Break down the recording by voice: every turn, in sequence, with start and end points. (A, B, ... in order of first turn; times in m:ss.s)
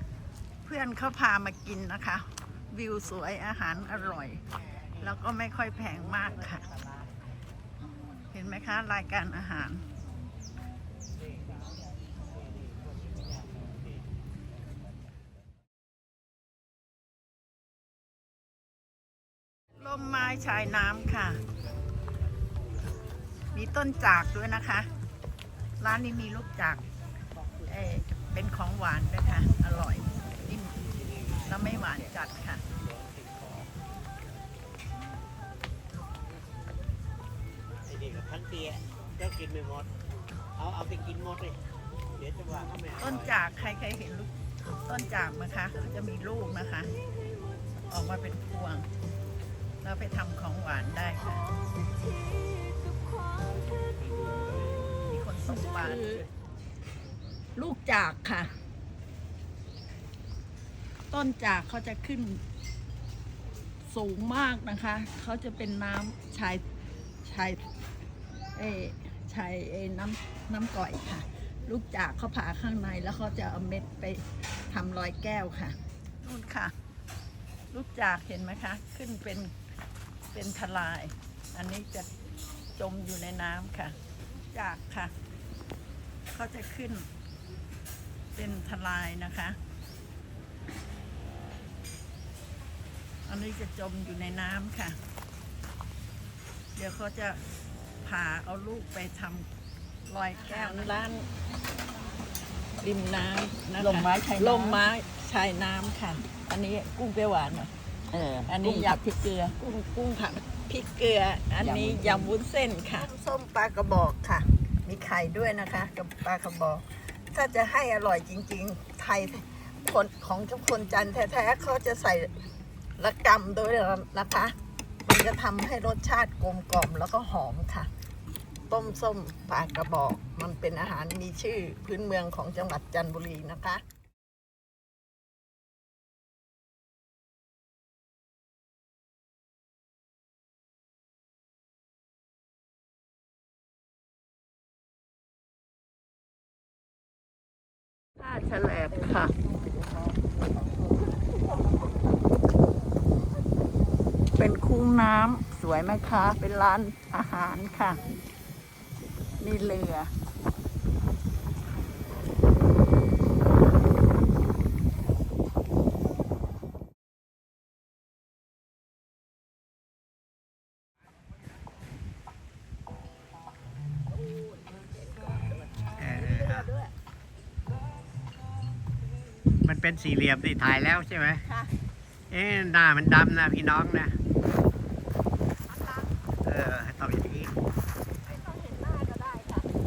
0:00.6-0:04.4 A
0:05.0-0:06.7 A
0:08.3-0:09.8 A
0:19.8-0:21.4 A
0:23.5-0:24.9 A
0:25.8-0:26.8 A
0:27.6-0:32.6 A
0:33.0-0:33.5 B
0:37.8-0:39.9 B
0:40.6-0:41.6 B
0:42.2-0:43.1 B
0:43.0-0:46.9 A
0:47.9-0:48.9 A
0:49.8-0:51.5 A
0:52.0-0:53.6 C
0:55.0-0:56.3 A
0:55.6-0:56.2 C
0:57.6-0:58.5 A
1:01.1-1:02.4 A
1:03.9-1:06.6 A
1:07.2-1:07.6 A
1:08.5-1:16.7 A
1:17.7-1:19.5 A
1:20.3-1:22.1 A
1:22.8-1:24.0 A
1:24.5-1:25.1 A
1:26.3-1:27.1 A
1:28.3-1:29.6 A
1:33.2-1:35.0 A
1:36.8-1:37.4 A
1:38.0-1:39.5 A
1:40.1-1:41.3 A
1:42.8-1:47.7 A
1:43.8-1:44.8 C
1:48.1-1:49.0 C
1:48.4-2:02.4 A
2:03.0-2:07.9 A
2:08.7-2:13.8 A
2:28.2-2:29.3 A
2:34.3-2:38.0 A
2:39.4-2:40.1 A
2:54.1-2:56.9 C
2:56.0-2:56.7 B
2:59.6-3:01.4 B
3:02.3-3:04.2 B
3:05.7-3:06.1 C
3:06.4-3:07.5 B
3:08.3-3:09.7 C